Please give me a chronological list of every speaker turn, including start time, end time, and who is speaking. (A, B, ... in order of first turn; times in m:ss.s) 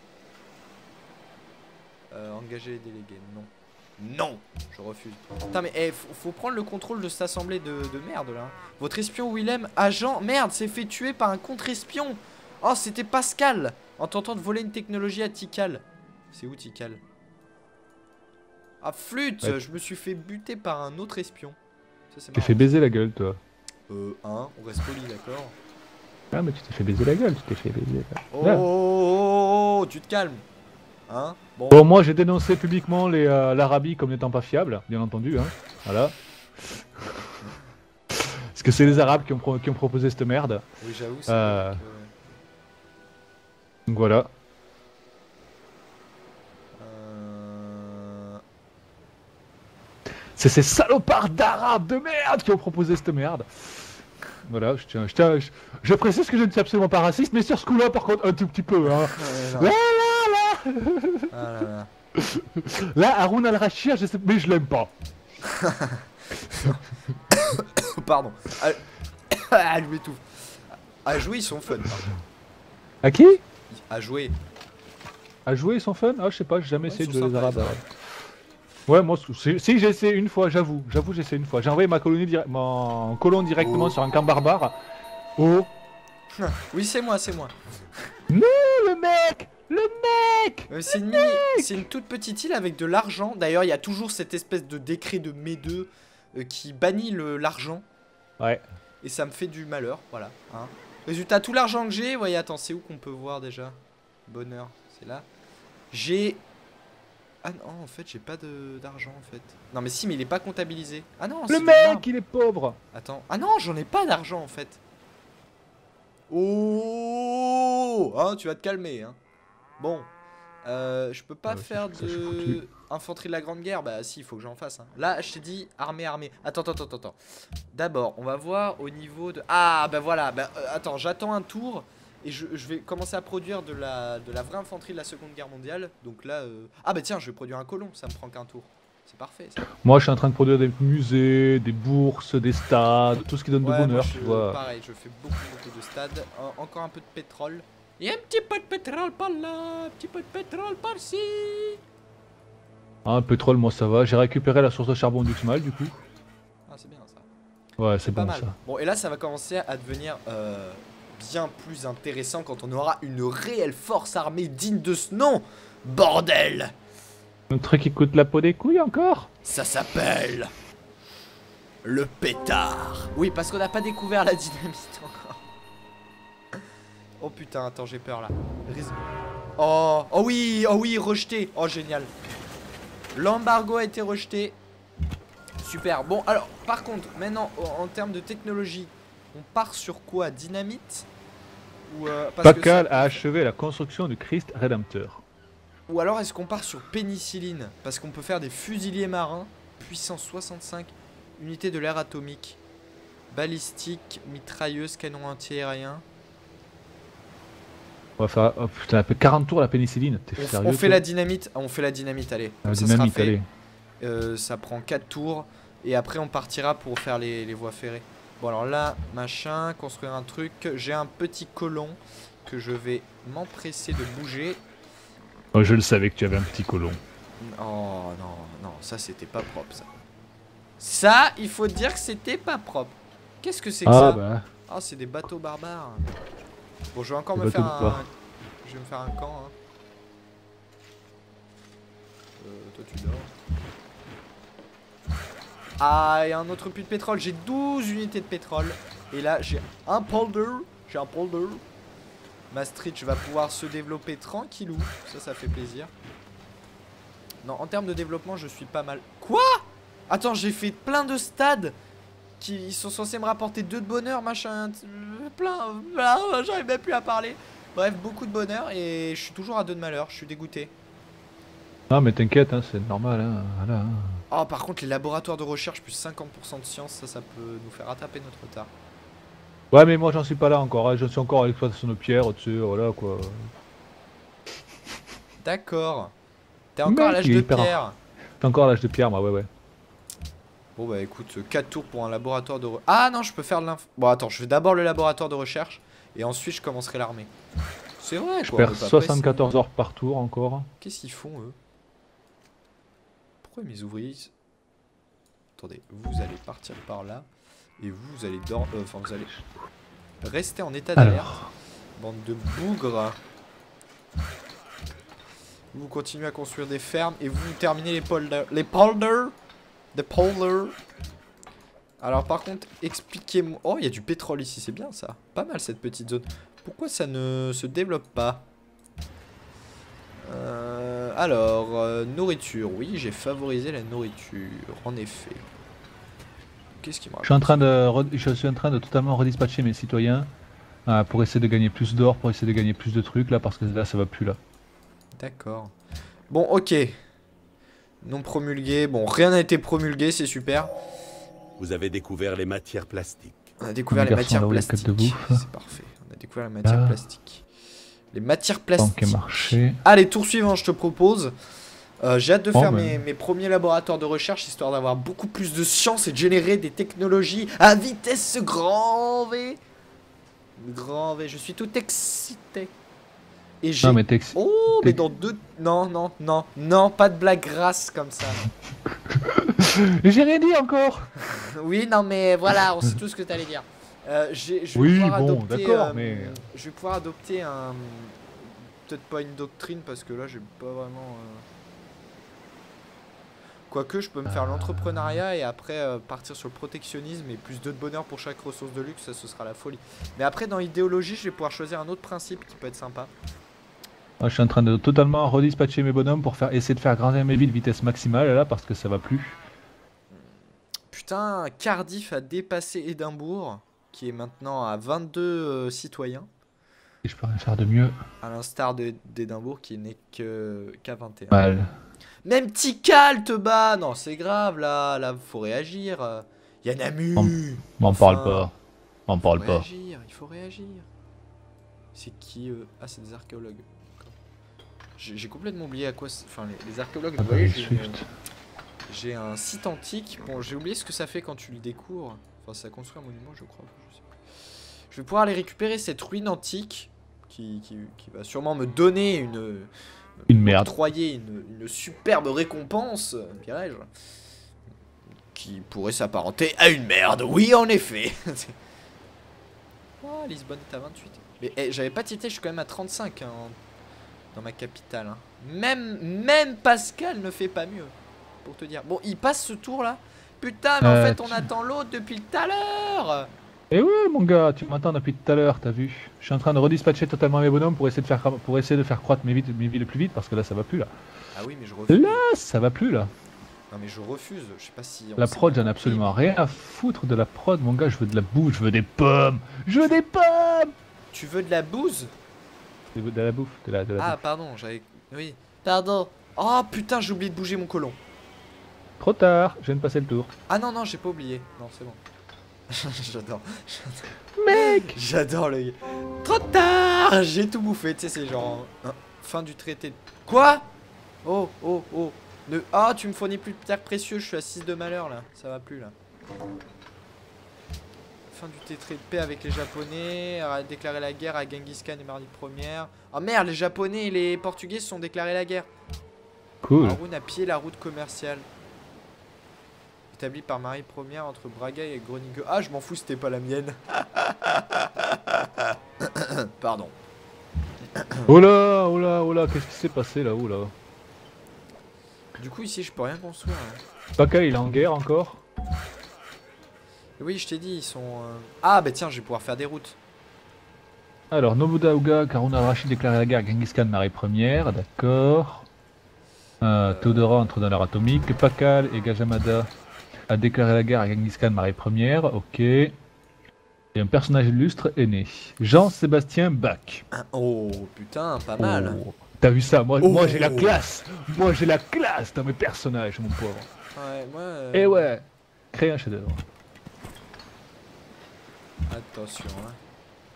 0:02.1-0:17.0 A
0:18.8-0:21.6 A
0:22.1-0:22.7 A
0:22.4-0:23.4 B
0:23.9-0:25.6 A
0:26.3-0:28.7 B
0:28.3-0:30.4 A
0:31.1-0:31.8 A
0:31.7-0:36.1 B
0:36.7-0:37.1 B
0:38.1-0:40.6 B
0:38.8-0:39.2 A
0:40.8-0:42.1 A
0:41.3-0:41.8 B
0:43.9-0:44.3 B
0:46.8-0:48.4 A
0:50.4-1:01.3 B
0:59.1-0:59.8 A
1:01.3-1:01.9 A
1:02.2-1:04.9 B
1:05.5-1:10.2 A
1:06.5-1:06.8 B
1:11.0-1:12.2 A
1:13.0-1:13.4 B
1:13.7-1:14.4 A
1:15.5-1:17.8 B
1:16.9-1:17.8 A
1:18.9-1:24.8 B
1:23.6-1:23.9 A
1:25.4-1:25.7 B
1:26.4-1:27.5 A
1:28.3-1:31.8 B
1:30.7-1:37.8 A
1:39.0-1:45.3 A
1:45.9-1:46.4 A
1:47.4-1:52.1 A
1:51.5-1:52.8 B
1:52.9-1:54.8 A
1:56.3-1:59.2 A
1:59.8-2:00.1 A
2:00.6-2:07.2 A
2:01.5-2:02.6 B
2:07.7-2:19.6 A
2:19.8-2:24.6 B
2:23.6-2:31.8 A
2:33.0-2:36.0 B
2:36.7-2:37.3 A
2:37.8-2:38.5 B
2:38.0-2:46.7 A
2:47.5-2:49.3 B
2:49.4-2:50.5 A
2:51.8-2:55.4 A
2:57.2-3:02.1 A
3:03.2-3:04.6 A
3:05.6-3:11.1 A
3:11.9-3:13.2 A
3:12.4-3:15.2 B
3:15.9-3:22.6 A
3:23.3-3:26.0 A
3:28.2-3:31.0 B
3:30.4-3:33.4 A
3:32.6-3:33.5 B
3:34.0-3:44.6 A
3:45.5-3:47.0 B
3:47.4-3:49.9 A
3:50.8-3:56.1 A
3:53.8-3:54.5 B
3:56.9-3:58.1 A
3:57.4-3:58.0 B
3:58.6-3:59.5 A
4:02.4-4:03.3 A
4:05.8-4:11.6 A
4:12.5-4:15.9 A
4:17.4-4:21.8 A
4:22.4-4:30.7 A
4:31.9-4:34.2 B
4:34.3-4:38.7 A
4:39.7-4:43.5 B
4:45.4-4:46.1 A
4:46.8-4:48.0 A
4:46.9-4:47.8 B
4:48.4-4:49.5 B
4:50.8-4:57.3 A
4:58.0-4:59.5 A
4:58.4-5:00.7 B
5:00.8-5:01.6 A
5:03.4-5:04.3 A
5:05.6-5:07.3 A
5:07.8-5:09.4 A
5:10.2-5:11.4 A
5:11.0-5:11.5 B
5:12.0-5:13.2 A
5:15.7-5:19.3 A
5:19.9-5:20.8 A
5:22.0-5:28.5 A
5:30.2-5:35.5 A
5:36.8-5:37.7 A
5:37.2-5:40.3 B
5:40.9-5:44.4 B
5:45.2-5:45.7 A
5:46.3-5:47.0 A
5:48.0-5:50.7 A
5:51.6-5:53.5 C
5:53.6-5:57.5 A
5:53.9-5:55.4 B
5:56.6-5:57.0 B
5:58.1-6:01.3 A
5:58.8-5:59.8 B
6:02.0-6:09.6 A
6:02.5-6:03.0 B
6:10.6-6:12.7 A
6:13.6-6:18.5 A
6:13.8-6:15.0 B
6:19.1-6:21.1 B
6:21.2-6:31.5 A
6:24.8-6:26.4 B
6:33.7-6:43.1 A
6:34.4-6:35.1 B
6:44.2-6:49.4 B
6:50.9-6:56.3 A
6:57.0-6:58.0 B
6:58.2-7:01.7 A
7:01.3-7:01.7 B
7:02.2-7:08.5 A
7:07.2-7:08.5 B
7:09.1-7:09.7 B
7:09.3-7:10.9 A
7:12.0-7:14.1 A
7:15.0-7:18.0 A
7:17.2-7:18.1 B
7:18.9-7:24.0 A
7:24.9-7:29.7 A
7:30.3-7:33.9 A
7:30.3-7:30.7 B
7:35.3-7:38.6 A
7:40.0-7:43.6 A
7:44.3-7:47.9 A
7:48.4-7:53.3 A
7:50.8-7:51.5 B
7:53.7-8:00.9 B
8:01.4-8:02.2 A
8:01.9-8:03.1 B
8:03.7-8:06.2 A
8:05.2-8:10.7 B
8:11.1-8:12.1 A
8:12.9-8:14.2 B
8:14.0-8:18.0 A
8:19.0-8:20.3 B
8:20.5-8:22.0 A
8:22.7-8:30.7 A
8:24.4-8:25.0 B
8:31.2-8:35.9 A
8:38.3-8:45.7 A
8:46.6-8:47.0 B
8:46.8-8:48.5 A
8:50.1-8:56.9 A
8:58.3-9:00.7 B
9:02.4-9:03.8 A
9:04.2-9:05.4 B
9:07.2-9:10.0 A
9:11.3-9:15.7 B
9:16.6-9:19.7 B
9:16.8-9:17.4 A
9:20.3-9:23.0 B
9:24.0-9:27.0 B
9:27.1-9:29.0 A
9:28.6-9:33.7 B
9:30.0-9:30.8 A
9:34.0-9:35.1 A
9:34.7-9:36.4 B
9:38.9-9:39.8 A